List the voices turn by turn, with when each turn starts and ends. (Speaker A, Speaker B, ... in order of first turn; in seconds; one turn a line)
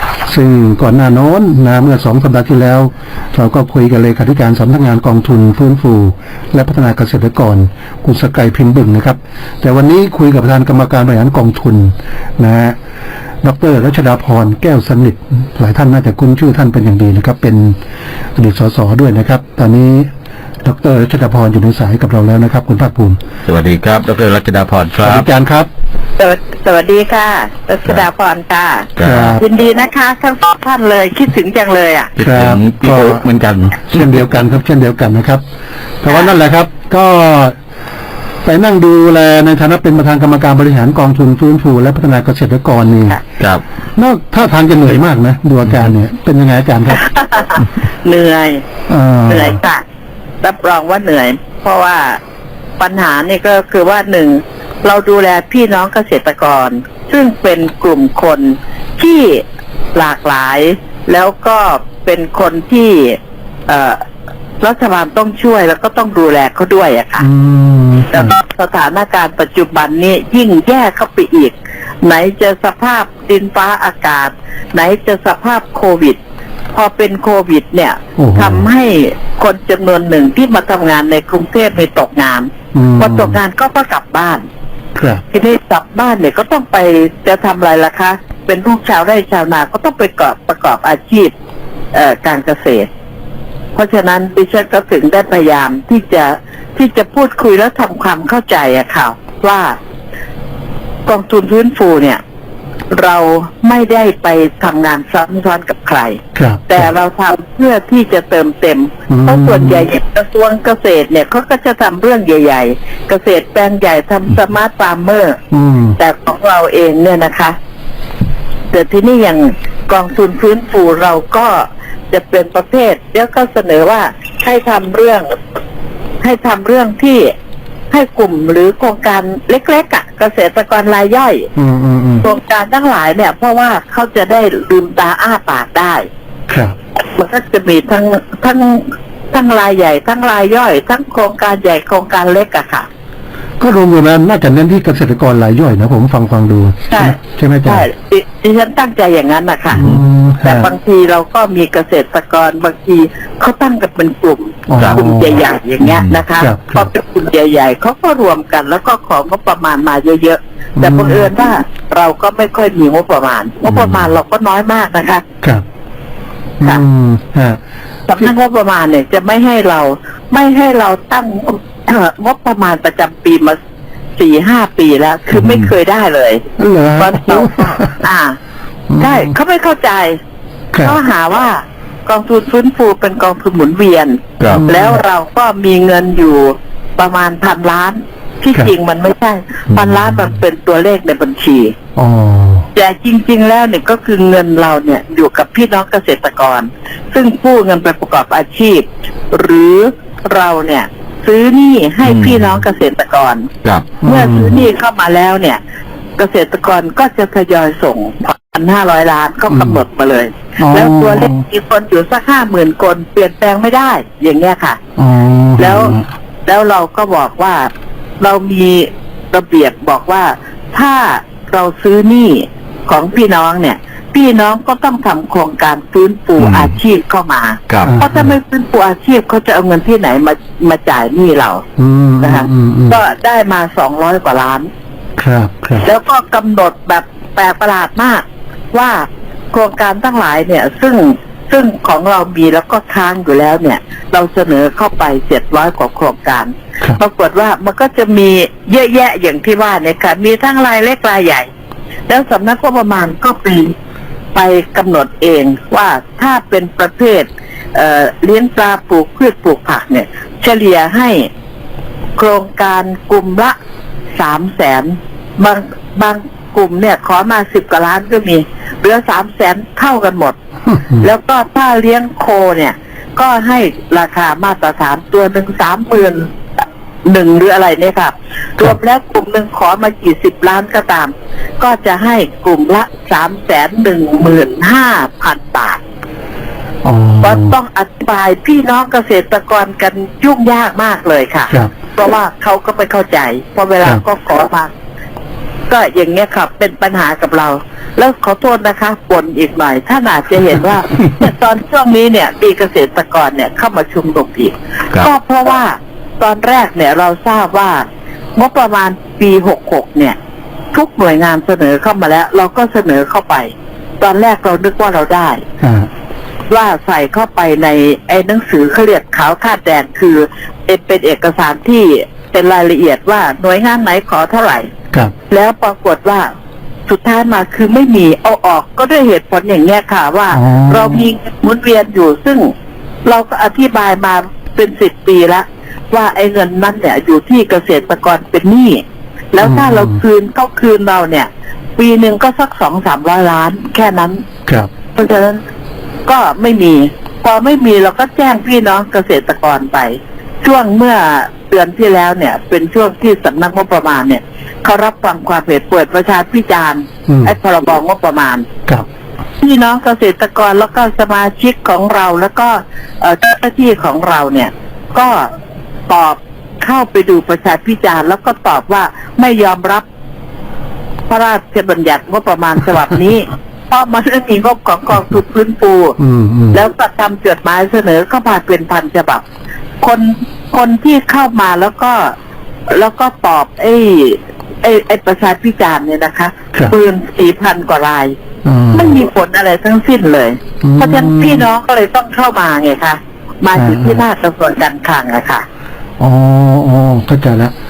Speaker A: 0.2-12.8
Speaker A: 13.4-17.8
Speaker A: 18.4-20.1
Speaker A: 20.6-23.2
Speaker B: 23.4-25.3
Speaker A: 25.0-25.7
Speaker C: 26.2-32.1
Speaker B: 29.0-29.3
Speaker A: 29.0-29.4
Speaker B: 32.2-34.2
Speaker A: 32.2-33.2
Speaker A: 33.8-35.4
Speaker A: 36.0-37.5
Speaker A: 38.4-43.2
Speaker A: 44.0-47.0
Speaker B: 45.7-45.9
Speaker C: 46.9-48.6
Speaker A: 48.9-49.5
Speaker C: 49.3-49.8
Speaker C: 50.4-52.2
Speaker C: 52.8-59.4
Speaker C: 59.9-64.0
Speaker C: 64.6-67.2
Speaker A: 67.2-68.3
Speaker C: 68.1-76.2
Speaker C: 76.7-84.4
Speaker A: 78.2-78.7
Speaker A: 82.7-83.4
Speaker A: 84.9-85.2
Speaker C: 85.3-91.3
Speaker C: 91.9-92.9
Speaker C: 93.8-99.8
Speaker C: 101.1-102.2
Speaker C: 102.9-115.4
Speaker A: 106.3-106.8
Speaker A: 109.1-109.9
Speaker A: 115.5-116.0
Speaker C: 116.0-117.5
Speaker C: 118.7-125.3
Speaker C: 126.2-127.3
Speaker C: 127.9-131.5
Speaker A: 131.6-132.2
Speaker C: 132.2-136.1
Speaker A: 136.5-136.7
Speaker C: 137.1-142.9
Speaker A: 143.6-147.8
Speaker C: 146.9-149.8
Speaker A: 149.7-150.7
Speaker C: 150.4-165.2
Speaker A: 154.7-155.3
Speaker B: 155.8-156.2
Speaker A: 156.4-156.9
Speaker A: 160.8-161.3
Speaker B: 163.7-164.1
Speaker A: 166.6-167.6
Speaker C: 168.1-173.6
Speaker C: 174.2-176.4
Speaker B: 175.3-175.7
Speaker A: 176.6-178.0
Speaker C: 177.0-178.4
Speaker A: 178.9-179.2
Speaker C: 179.0-180.2
Speaker A: 180.7-181.0
Speaker C: 180.8-191.7
Speaker A: 184.5-185.0
Speaker B: 189.7-190.0
Speaker A: 192.0-192.7
Speaker C: 192.7-203.5
Speaker B: 202.0-202.4
Speaker B: 203.6-203.9
Speaker A: 204.0-204.6
Speaker C: 204.0-205.6
Speaker C: 206.2-214.8
Speaker A: 209.5-209.8
Speaker A: 210.6-211.4
Speaker A: 215.0-216.1
Speaker C: 215.6-215.9
Speaker C: 216.4-231.6
Speaker B: 226.4-226.7
Speaker A: 227.8-228.3
Speaker A: 231.8-233.0
Speaker C: 232.2-234.7
Speaker A: 235.2-235.8
Speaker C: 235.8-251.5
Speaker C: 252.1-253.7
Speaker C: 254.3-261.3
Speaker C: 262.2-263.6
Speaker C: 264.1-270.3
Speaker A: 270.7-271.1
Speaker C: 271.0-276.3
Speaker C: 277.0-285.8
Speaker A: 286.8-287.5
Speaker C: 287.2-294.7
Speaker C: 295.7-307.8
Speaker C: 308.4-310.1
Speaker C: 310.7-315.4
Speaker A: 315.6-315.9
Speaker C: 316.5-324.7
Speaker C: 325.3-326.3
Speaker C: 326.9-332.5
Speaker A: 330.3-331.0
Speaker C: 333.0-344.2
Speaker A: 339.4-340.0
Speaker C: 344.9-345.4
Speaker C: 346.1-358.4
Speaker A: 357.1-357.4
Speaker C: 359.4-365.3
Speaker C: 365.9-369.8
Speaker C: 371.1-376.0
Speaker A: 376.0-376.6
Speaker C: 376.5-379.2
Speaker C: 379.8-382.1
Speaker C: 382.7-388.1
Speaker A: 388.4-389.0
Speaker C: 388.7-395.4
Speaker A: 390.6-391.4
Speaker A: 393.5-394.0
Speaker A: 396.0-397.5